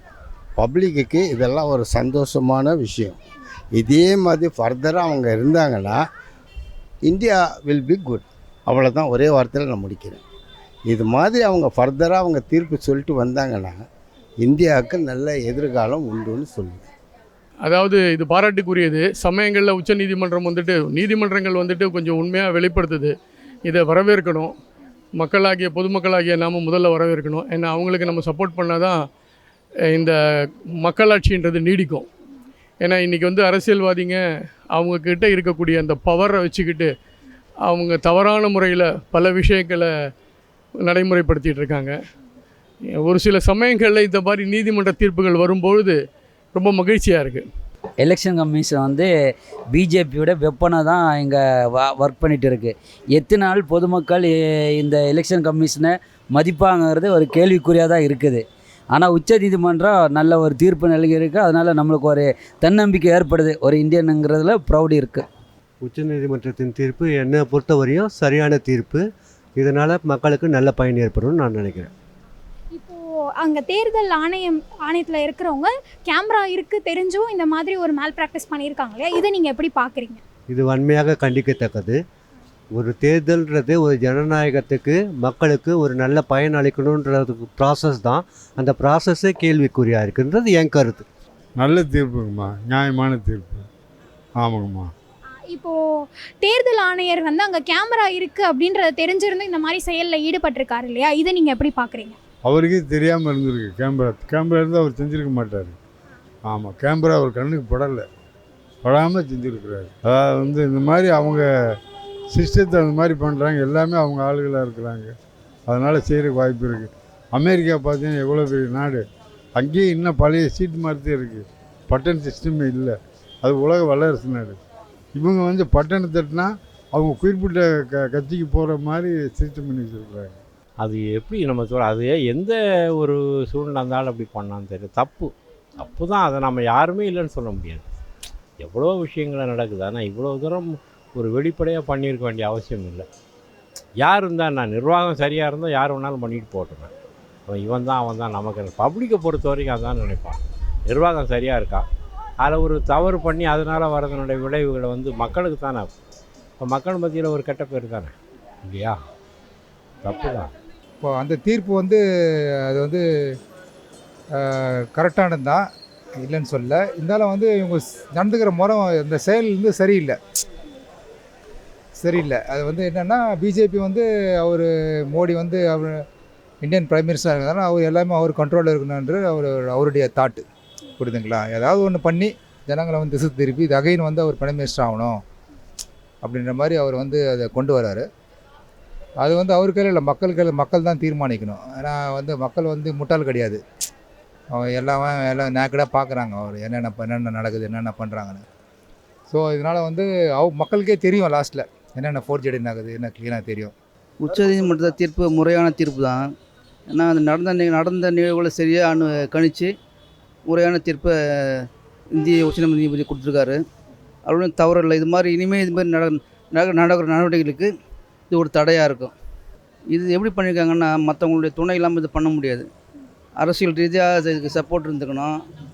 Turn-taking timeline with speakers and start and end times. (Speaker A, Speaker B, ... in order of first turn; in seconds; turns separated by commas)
Speaker A: 0.6-3.2, Speaker A: 3.8-6.0, Speaker A: 7.1-10.2, Speaker A: 10.9-13.8, Speaker A: 14.4-16.8, Speaker B: 17.7-23.1, Speaker B: 23.7-24.5, Speaker B: 25.2-29.0, Speaker B: 29.9-30.2, Speaker B: 30.8-32.1, Speaker B: 32.8-34.2, Speaker B: 34.7-36.9, Speaker B: 37.7-39.9, Speaker B: 40.9-41.9, Speaker B: 43.0-46.0, Speaker B: 46.5-47.5, Speaker C: 48.0-49.1, Speaker C: 49.7-58.4, Speaker C: 58.9-65.2, Speaker D: 65.8-69.0, Speaker D: 69.6-71.9, Speaker E: 72.7-80.2, Speaker D: 80.5-82.0, Speaker D: 82.7-91.0, Speaker F: 91.6-93.7, Speaker F: 94.4-94.9, Speaker E: 95.5-102.2, Speaker F: 102.5-105.8, Speaker F: 106.5-108.1, Speaker F: 108.8-111.5, Speaker F: 112.3-115.1, Speaker F: 115.7-119.0, Speaker F: 119.6-124.6, Speaker F: 125.2-130.4, Speaker G: 130.8-137.8, Speaker G: 138.6-143.1, Speaker G: 144.0-146.9, Speaker G: 147.5-151.9, Speaker G: 152.4-155.9, Speaker G: 156.6-158.1, Speaker G: 158.7-159.0, Speaker G: 160.0-160.5, Speaker H: 161.0-162.0, Speaker H: 162.7-163.0, Speaker H: 164.4-165.6, Speaker H: 166.2-170.2, Speaker H: 172.0-176.0, Speaker H: 176.6-180.4, Speaker H: 181.0-185.2, Speaker H: 186.2-188.0, Speaker H: 189.2-193.6, Speaker H: 194.5-198.4, Speaker H: 199.3-203.7, Speaker I: 204.2-206.2, Speaker I: 206.9-209.7, Speaker I: 210.5-211.2, Speaker I: 212.2-213.6, Speaker I: 214.2-217.7, Speaker I: 218.3-219.1, Speaker I: 219.9-222.7, Speaker I: 223.4-225.3